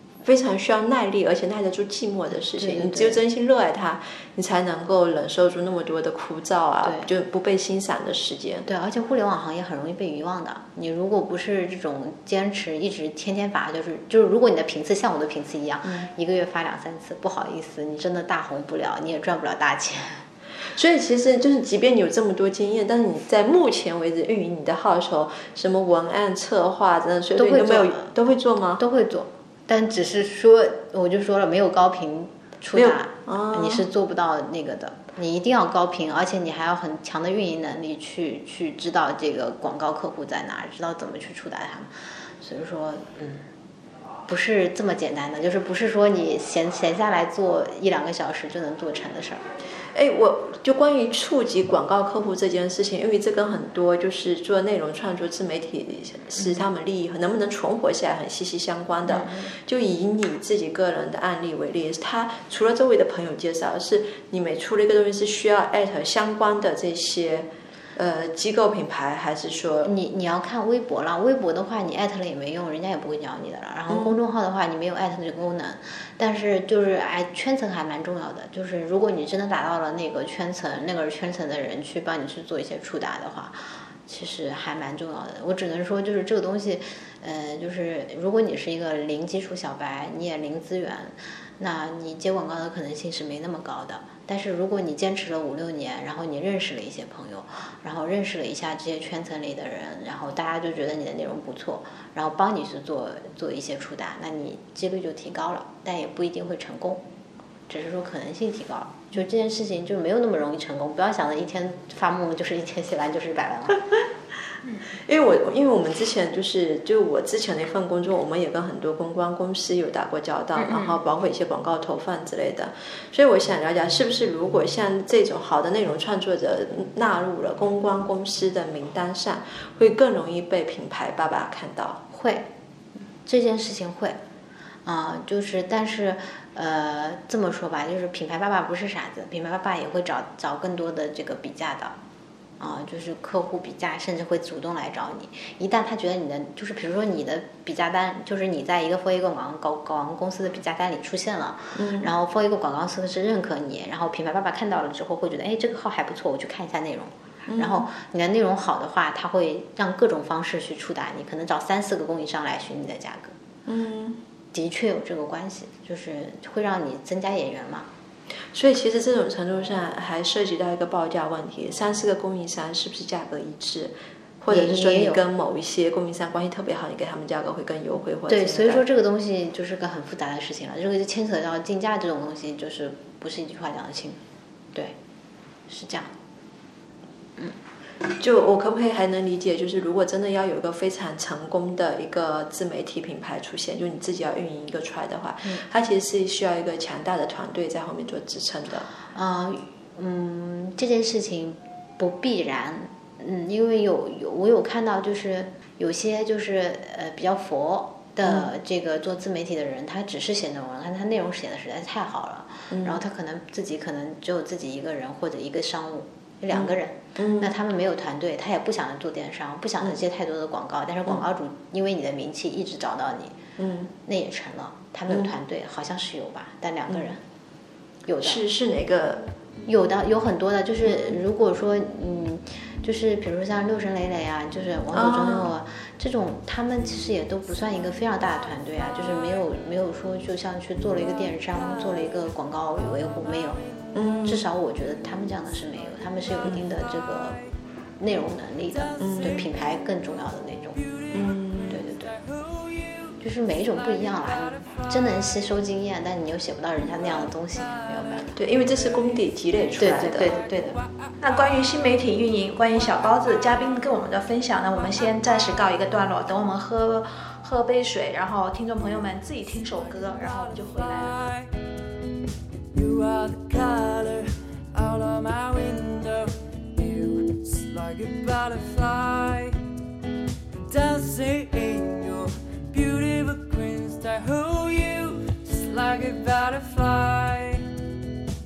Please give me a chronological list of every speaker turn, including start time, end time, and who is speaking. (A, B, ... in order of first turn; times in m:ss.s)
0:00.2-0:08.6 A
0:02.6-0:03.2 B
0:06.8-0:07.1 B
0:08.6-0:20.2 B
0:20.7-0:28.8 A
0:27.4-0:28.1 B
0:28.8-0:43.5 B
0:32.7-0:33.8 A
0:44.3-0:49.4 B
0:49.9-1:09.9 A
0:59.1-0:59.4 B
1:09.8-1:47.0 B
1:13.9-1:14.2 A
1:47.7-1:54.0 B
1:54.9-2:12.0 A
2:00.6-2:01.0 C
2:12.1-2:14.2 B
2:14.8-2:22.0 B
2:22.6-2:43.3 B
2:31.8-2:32.1 A
2:37.4-2:37.8 A
2:43.6-2:44.2 A
2:44.5-2:47.9 B
2:48.5-2:58.8 A
2:54.5-2:55.2 B
2:58.3-3:04.2 B
3:05.7-3:06.1 B
3:08.2-3:18.9 A
3:19.1-3:43.4 B
3:28.2-3:28.5 A
3:32.7-3:33.0 A
3:36.5-3:37.5 A
3:43.6-3:43.9 A
3:44.0-3:47.2 B
3:46.9-3:47.1 A
3:48.0-3:48.4 B
3:48.2-3:49.3 A
3:49.6-4:03.6 B
3:54.9-3:55.5 A
3:57.8-3:59.4 D
4:01.4-4:04.3 D
4:03.9-4:04.4 A
4:04.2-4:07.4 B
4:04.9-4:07.5 D
4:08.0-4:10.8 B
4:08.6-4:10.0 D
4:09.0-4:09.4 A
4:10.7-4:15.4 D
4:11.1-4:11.8 A
4:11.7-4:12.1 B
4:13.2-4:18.3 B
4:16.8-4:24.1 D
4:18.3-4:20.3 A
4:19.8-4:20.8 B
4:20.3-4:31.2 C
4:24.6-4:26.0 D
4:28.8-4:31.5 D
4:32.7-4:39.6 D
4:40.6-4:47.7 D